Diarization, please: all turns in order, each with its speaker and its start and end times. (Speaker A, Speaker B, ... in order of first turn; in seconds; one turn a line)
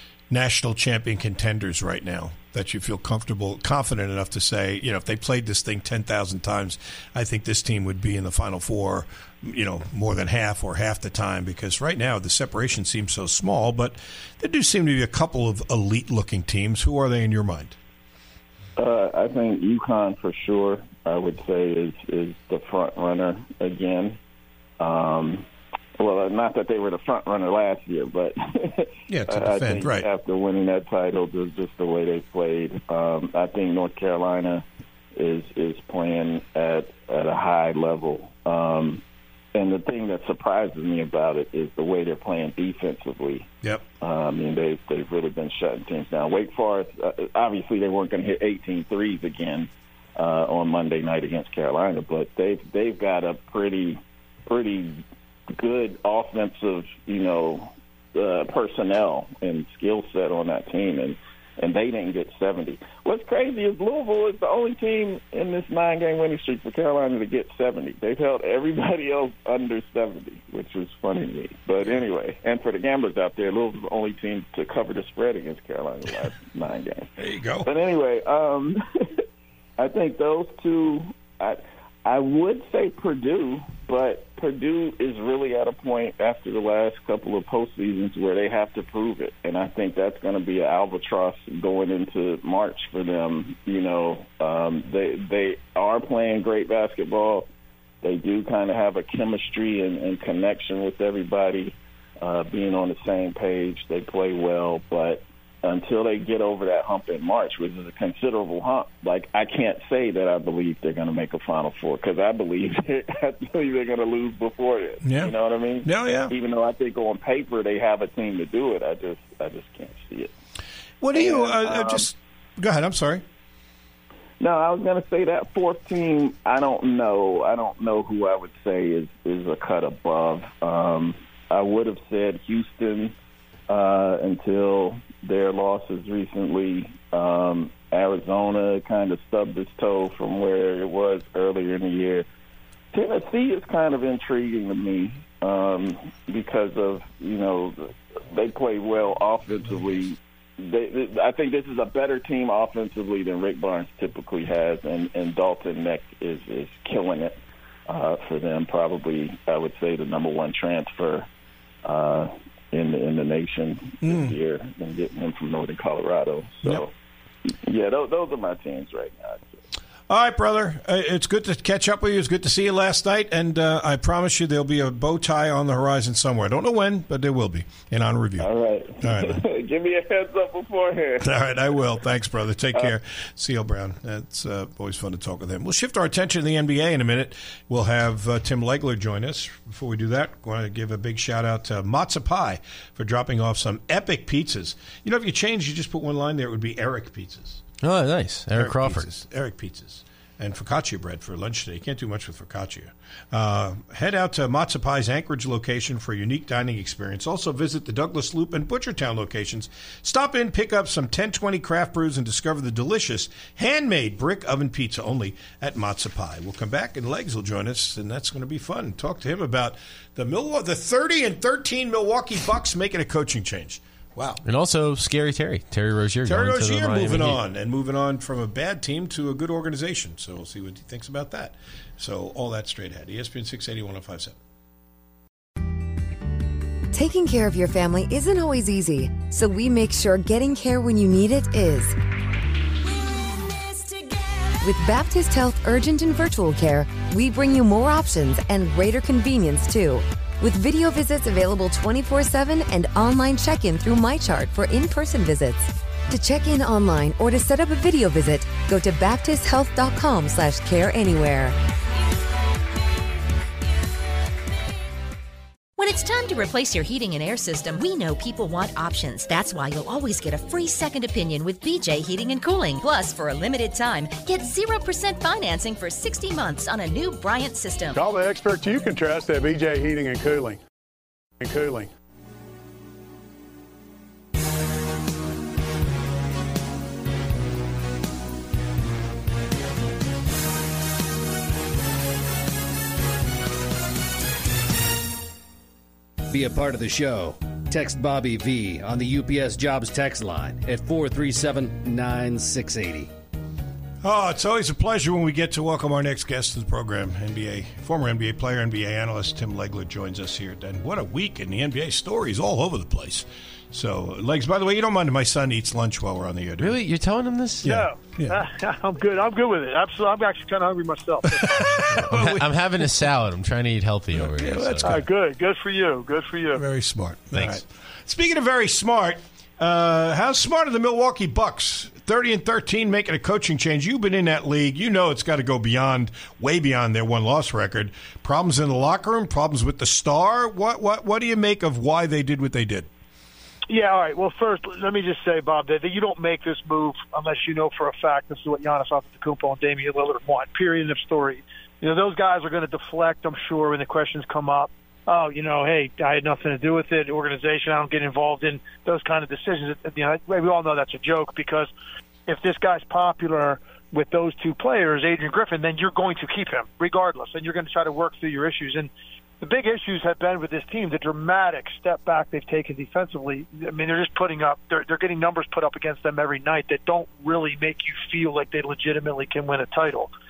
Speaker A: 0.3-17.8
Speaker B: 18.8-24.2
Speaker B: 24.8-25.4
Speaker B: 26.0-39.0
Speaker A: 29.1-30.1
Speaker B: 39.5-43.5
Speaker B: 44.0-55.0
Speaker B: 55.6-77.1
Speaker A: 77.2-77.7
Speaker B: 77.6-79.2
Speaker B: 79.8-97.5
Speaker B: 98.0-120.3
Speaker A: 115.1-115.3
Speaker A: 115.8-116.3
Speaker A: 121.0-123.2
Speaker B: 121.1-122.1
Speaker B: 124.4-133.1
Speaker B: 133.7-142.2
Speaker B: 142.9-161.3
Speaker B: 161.8-166.9
Speaker A: 164.1-164.3
Speaker B: 167.4-169.6
Speaker A: 170.1-178.5
Speaker B: 178.4-181.3
Speaker A: 179.0-179.4
Speaker A: 181.2-197.7
Speaker C: 197.8-199.1
Speaker A: 198.6-224.4
Speaker C: 224.4-227.4
Speaker A: 226.2-234.4
Speaker D: 236.9-241.9
Speaker D: 244.6-261.6
Speaker E: 265.8-278.0
Speaker F: 278.1-280.6
Speaker F: 281.4-281.9
Speaker G: 296.3-303.1
Speaker A: 304.0-316.8
Speaker C: 316.6-317.8
Speaker A: 317.6-318.4
Speaker H: 317.6-321.8
Speaker A: 321.5-323.0
Speaker C: 321.9-325.0
Speaker A: 324.1-325.0
Speaker H: 324.8-326.6
Speaker A: 326.6-342.9
Speaker C: 327.3-327.6
Speaker H: 343.7-361.7
Speaker H: 362.3-380.1